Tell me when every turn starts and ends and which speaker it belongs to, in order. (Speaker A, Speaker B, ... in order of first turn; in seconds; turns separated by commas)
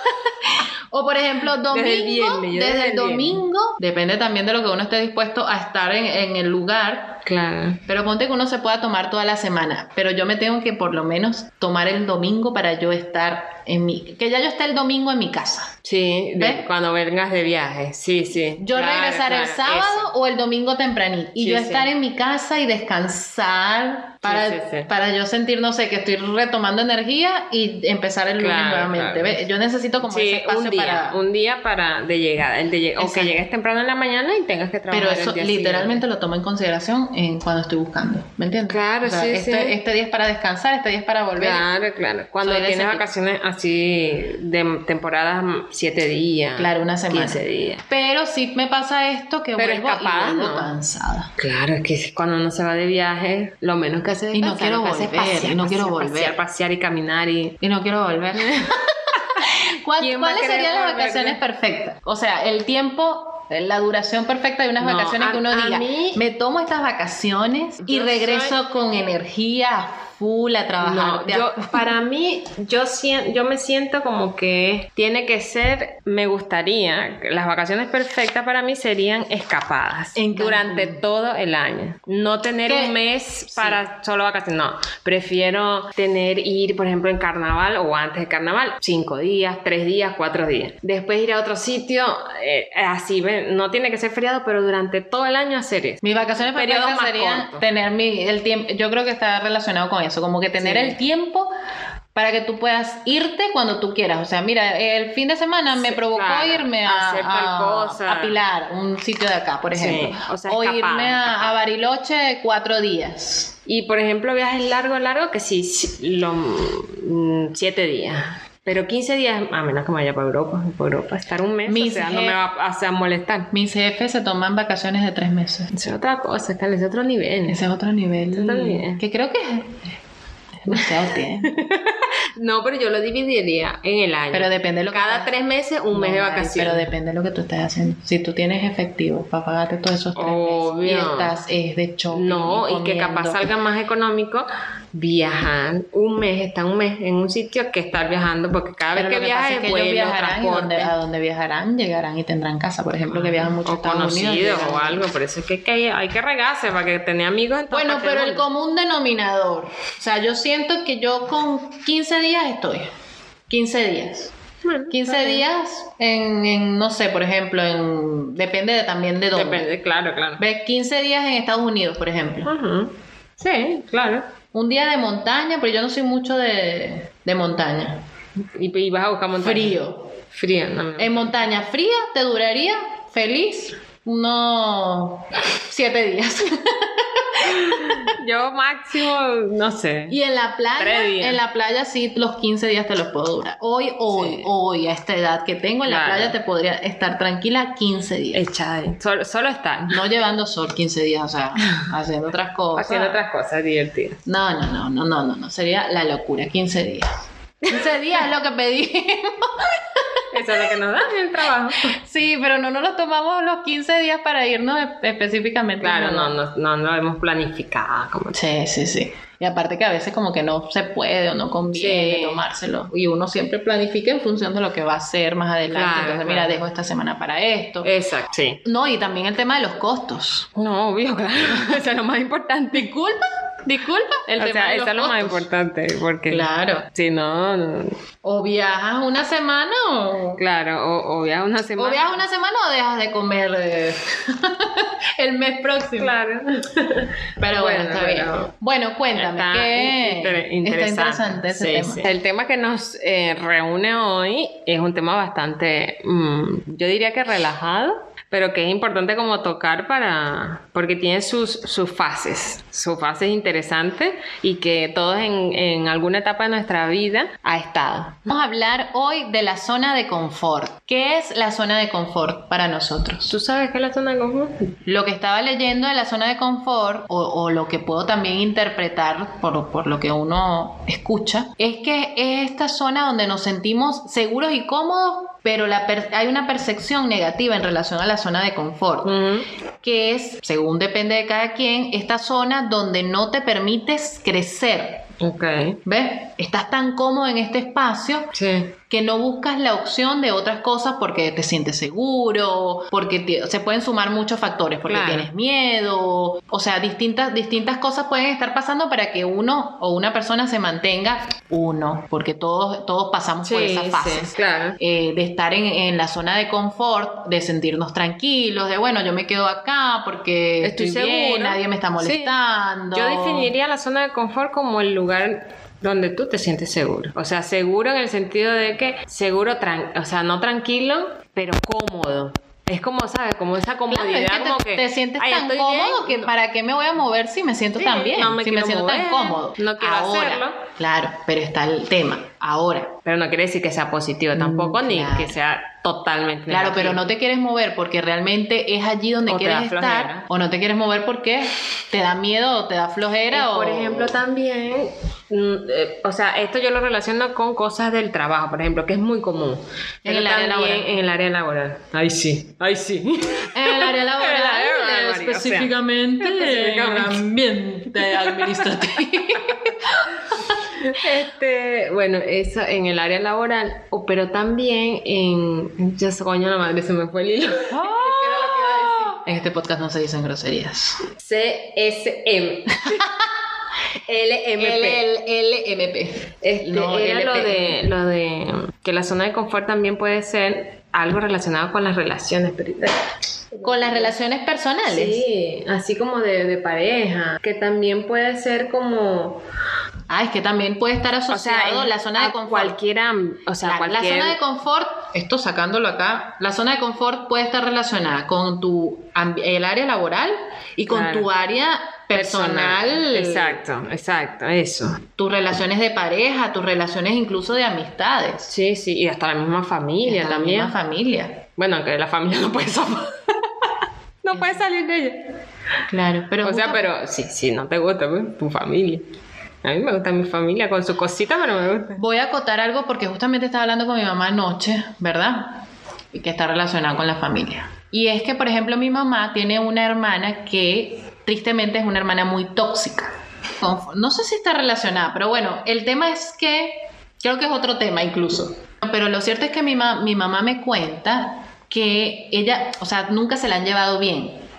Speaker A: 0.5-7.2, Speaker B: 1.7-3.4, Speaker B: 7.2-7.8, Speaker A: 7.9-15.7, Speaker B: 15.8-20.1, Speaker A: 16.4-16.6, Speaker A: 18.6-31.2, Speaker B: 21.4-21.9, Speaker B: 24.2-24.9, Speaker B: 28.4-29.4, Speaker B: 30.0-36.0, Speaker A: 33.0-33.4, Speaker A: 34.9-41.6, Speaker B: 38.7-39.8, Speaker B: 41.4-47.8, Speaker A: 42.4-43.0, Speaker A: 46.5-51.3, Speaker B: 49.6-50.7, Speaker B: 51.4-57.6, Speaker A: 54.3-56.4, Speaker A: 57.6-71.9, Speaker B: 58.4-59.5, Speaker B: 60.0-61.4, Speaker B: 64.8-66.2, Speaker B: 67.8-68.6, Speaker B: 70.8-97.6, Speaker A: 80.2-81.0, Speaker A: 82.7-83.8, Speaker A: 96.0-101.5, Speaker B: 100.6-101.0, Speaker A: 102.1-113.5, Speaker B: 105.7-108.4, Speaker B: 109.8-111.6, Speaker B: 113.7-123.5, Speaker A: 121.7-122.4, Speaker A: 123.5-125.7, Speaker B: 125.7-127.6, Speaker A: 127.5-129.9, Speaker B: 128.3-129.0, Speaker A: 130.6-131.5, Speaker B: 130.7-136.9, Speaker A: 134.3-135.3, Speaker A: 135.9-143.4, Speaker B: 140.1-141.3, Speaker B: 142.1-150.9, Speaker A: 148.9-155.0, Speaker B: 153.1-158.4, Speaker A: 157.7-162.9, Speaker A: 163.5-164.3, Speaker B: 164.6-165.4, Speaker A: 164.9-169.7, Speaker B: 169.3-170.4, Speaker A: 170.4-172.5, Speaker B: 172.4-174.3, Speaker A: 174.5-178.0, Speaker B: 178.5-179.8, Speaker A: 179.4-180.1, Speaker B: 180.3-181.3, Speaker A: 181.0-188.1, Speaker B: 187.4-190.2, Speaker A: 190.1-198.4, Speaker B: 190.8-191.4, Speaker B: 194.1-194.5, Speaker B: 195.8-196.3, Speaker B: 198.3-200.0, Speaker A: 199.9-203.2, Speaker B: 202.7-204.2, Speaker A: 204.2-207.1, Speaker A: 207.7-210.8, Speaker B: 210.3-211.9, Speaker A: 211.8-216.3, Speaker B: 215.8-218.4, Speaker A: 218.3-227.9, Speaker B: 221.7-222.4, Speaker B: 225.7-226.6, Speaker B: 227.8-228.6, Speaker A: 228.6-230.5, Speaker B: 230.5-232.9, Speaker A: 232.7-235.4, Speaker B: 234.3-237.9, Speaker A: 236.3-236.9, Speaker A: 238.2-240.4, Speaker B: 240.4-242.2, Speaker A: 241.8-246.2, Speaker B: 246.0-248.5, Speaker A: 247.4-252.1, Speaker B: 249.1-268.3, Speaker A: 268.3-273.3, Speaker B: 273.3-274.7, Speaker A: 274.9-289.1, Speaker B: 289.0-289.4, Speaker A: 289.8-295.0, Speaker B: 295.2-295.8, Speaker A: 295.8-298.3, Speaker B: 298.3-298.7, Speaker A: 298.9-323.5, Speaker B: 304.9-305.3, Speaker B: 313.4-314.8, Speaker B: 320.6-322.3, Speaker B: 322.9-336.3, Speaker A: 333.9-342.9, Speaker B: 337.8-340.6, Speaker B: 343.0-347.0, Speaker A: 344.3-345.4, Speaker A: 346.5-354.2, Speaker B: 349.3-350.2, Speaker B: 353.3-367.2, Speaker A: 360.0-360.9, Speaker A: 363.5-370.6, Speaker B: 367.9-368.9, Speaker B: 370.8-379.2, Speaker A: 377.7-381.0, Speaker B: 381.1-383.0, Speaker B: 384.1-385.0, Speaker A: 384.6-387.8, Speaker B: 386.4-394.1, Speaker A: 393.6-395.2, Speaker B: 394.8-399.4, Speaker A: 400.1-402.7, Speaker B: 401.3-404.4, Speaker A: 403.6-413.6, Speaker B: 410.9-411.3, Speaker B: 412.1-415.0, Speaker A: 415.2-418.5, Speaker B: 418.5-420.8, Speaker A: 420.0-421.4, Speaker B: 421.6-423.7, Speaker B: 424.2-425.2, Speaker A: 424.3-424.6, Speaker A: 425.9-426.8, Speaker B: 426.4-429.1, Speaker B: 429.6-432.0, Speaker A: 431.9-435.6, Speaker A: 436.1-454.4